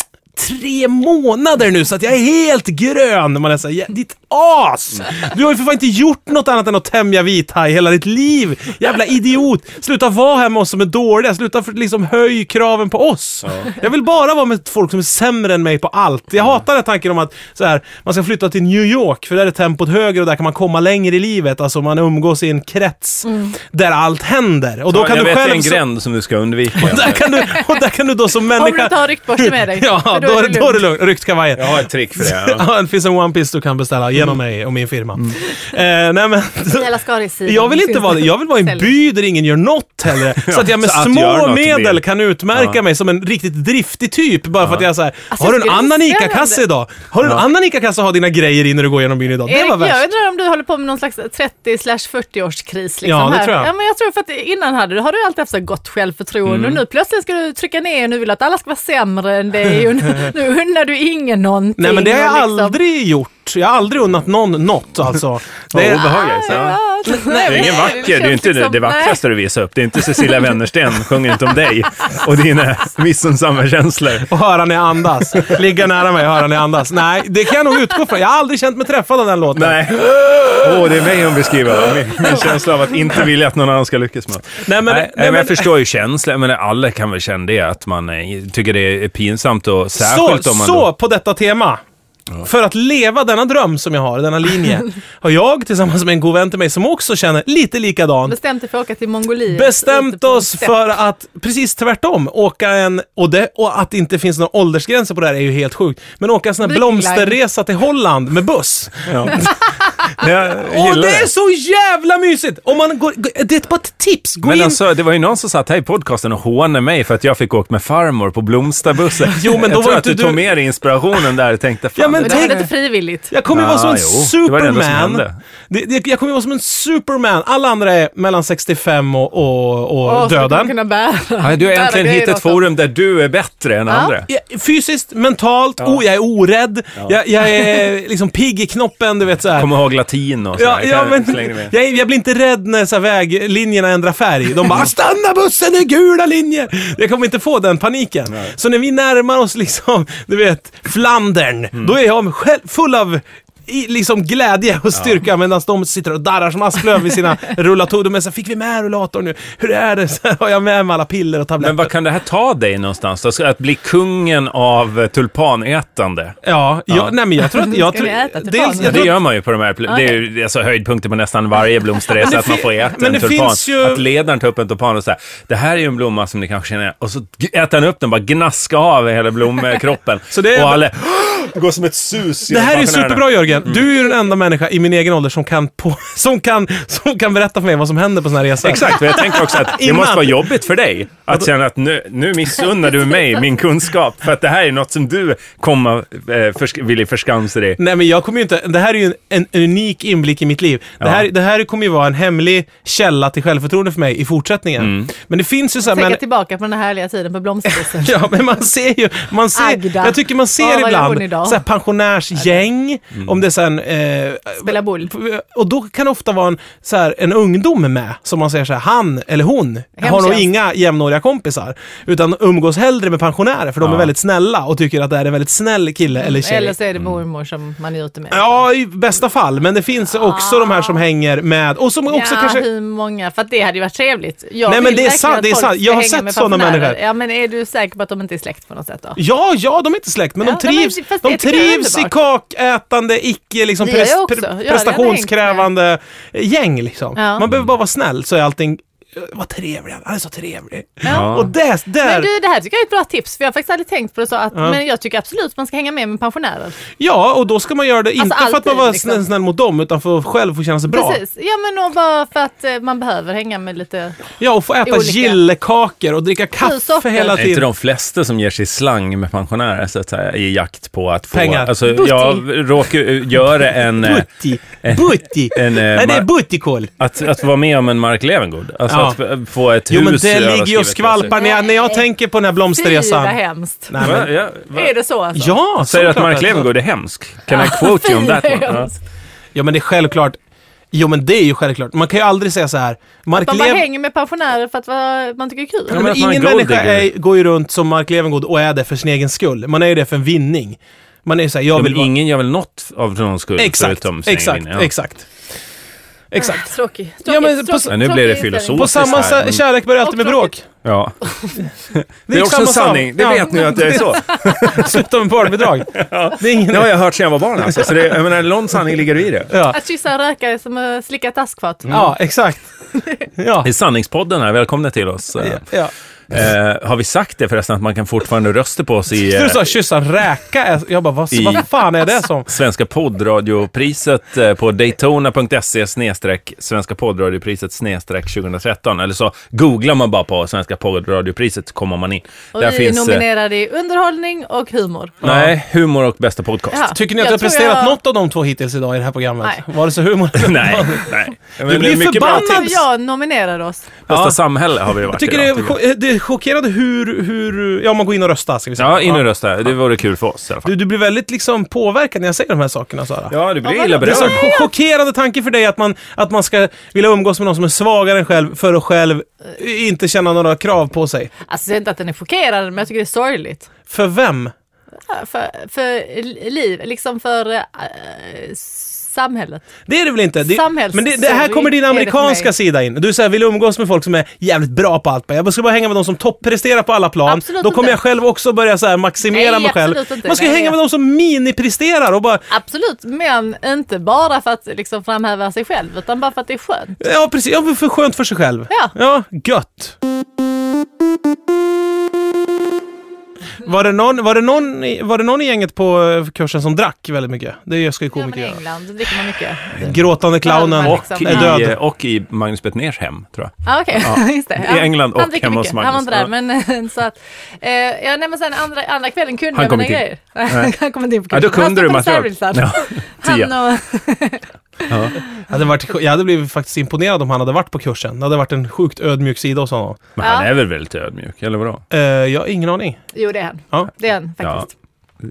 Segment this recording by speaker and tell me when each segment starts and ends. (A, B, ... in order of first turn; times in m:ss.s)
0:00.4-0:25.8 A
0:23.3-0:23.5 B
0:24.9-0:27.2 C
0:26.8-0:36.9 A
0:27.3-0:27.6 B
0:28.5-0:30.8 B
0:31.6-0:32.6 C
0:36.7-0:38.9 B
0:37.5-0:50.0 A
0:40.4-0:42.0 C
0:45.3-0:46.6 B
0:49.5-1:02.8 B
0:53.0-0:53.7 A
0:56.5-0:56.8 C
1:01.8-1:06.6 A
1:05.7-1:14.3 C
1:05.9-1:09.2 B
1:07.1-1:07.8 A
1:14.3-1:20.0 A
1:19.5-1:30.9 C
1:24.6-1:25.7 A
1:30.0-1:31.8 A
1:32.4-1:38.4 A
1:38.3-1:40.8 B
1:39.5-1:49.6 A
1:46.6-1:47.4 B
1:49.1-1:49.5 C
1:50.1-1:51.3 C
1:50.2-1:54.8 A
1:54.4-2:02.6 C
1:59.3-2:00.5 A
2:02.0-2:02.7 A
2:02.2-2:03.3 B
2:03.3-2:10.7 A
2:03.5-2:05.4 C
2:10.0-2:12.6 B
2:11.4-2:14.3 C
2:13.9-2:14.2 B
2:14.3-2:19.7 A
2:19.6-2:21.7 C
2:20.6-2:41.9 A
2:41.6-2:46.4 C
2:46.4-2:49.2 A
2:47.5-2:49.2 B
2:48.8-3:03.8 C
2:49.9-2:50.2 B
2:52.2-2:54.0 A
3:00.3-3:00.8 A
3:02.5-3:10.5 A
3:08.6-3:17.8 C
3:17.8-3:26.2 A
3:24.8-3:25.1 C
3:25.8-3:28.2 B
3:27.8-3:46.8 A
3:29.5-3:31.6 B
3:34.6-3:35.1 B
3:40.0-3:40.5 B
3:43.8-3:44.1 C
3:46.2-3:48.7 B
3:48.3-3:52.7 A
3:50.2-3:51.0 B
3:52.1-3:59.2 B
3:54.7-3:57.0 A
3:59.2-4:12.3 A
4:00.4-4:02.1 B
4:03.8-4:05.7 B
4:07.2-4:07.5 B
4:11.0-4:11.4 B
4:11.1-4:11.5 C
4:12.0-4:16.8 B
4:17.0-4:21.2 A
4:18.2-4:19.2 B
4:20.9-4:24.2 B
4:24.4-4:27.7 A
4:24.8-4:25.4 B
4:26.6-4:27.4 B
4:27.4-4:34.3 C
4:31.3-4:31.7 A
4:31.9-4:32.4 B
4:34.0-4:36.9 A
4:34.8-4:36.3 C
4:37.0-4:41.4 C
4:38.9-4:39.2 A
4:39.9-4:43.4 A
4:41.3-4:42.0 B
4:42.7-4:44.1 B
4:43.9-4:44.3 A
4:44.0-4:44.9 C
4:44.7-4:45.6 B
4:45.3-4:46.7 A
4:45.8-4:48.9 C
4:47.5-4:49.0 B
4:49.6-4:50.4 A
4:50.9-4:53.8 A
4:53.3-4:56.1 B
4:55.9-5:02.1 A
4:55.9-4:57.1 C
5:01.7-5:04.9 C
5:03.6-5:05.3 A
5:06.3-5:06.7 A
5:06.4-5:09.4 B
5:07.2-5:08.0 A
5:07.9-5:09.6 C
5:08.7-5:10.7 A
5:10.0-5:10.5 B
5:10.8-5:11.2 C
5:11.9-5:15.0 C
5:12.3-5:16.9 A
5:15.9-5:19.5 C
5:19.5-5:19.8 A
5:19.6-5:22.0 B
5:21.9-5:22.7 A
5:23.0-5:23.3 B
5:23.4-5:23.7 A
5:23.6-5:25.6 C
5:25.4-5:25.9 A
5:26.3-5:29.7 C
5:29.3-5:32.5 A
5:31.3-5:31.7 C
5:32.5-5:43.2 C
5:42.6-5:45.2 B
5:45.2-5:45.5 A
5:45.2-5:46.9 C
5:46.7-5:48.0 B
5:46.9-5:51.1 A
5:50.4-5:52.8 C
5:51.6-5:52.8 A
5:52.2-5:53.9 B
5:54.1-5:55.8 C
5:54.1-5:54.4 A
5:55.0-5:59.2 A
5:58.8-6:00.7 C
6:00.6-6:03.4 A
6:03.3-6:04.5 C
6:03.6-6:04.7 B
6:04.0-6:11.3 A
6:11.5-6:13.7 B
6:13.9-6:14.5 A
6:15.1-6:19.6 B
6:19.9-6:32.5 A
6:20.4-6:22.5 B
6:27.3-6:28.0 B
6:29.3-6:30.8 B
6:32.5-6:37.0 B
6:37.0-6:40.0 A
6:43.6-6:48.6 A
6:48.1-6:51.6 B
6:49.7-6:51.8 A
6:50.8-6:56.3 C
6:53.6-7:05.0 B
6:59.5-7:00.7 C
7:01.3-7:03.5 C
7:04.9-7:05.2 C
7:05.5-7:10.1 A
7:10.2-7:11.8 C
7:10.2-7:10.5 B
7:11.9-7:13.0 A
7:13.1-7:14.7 B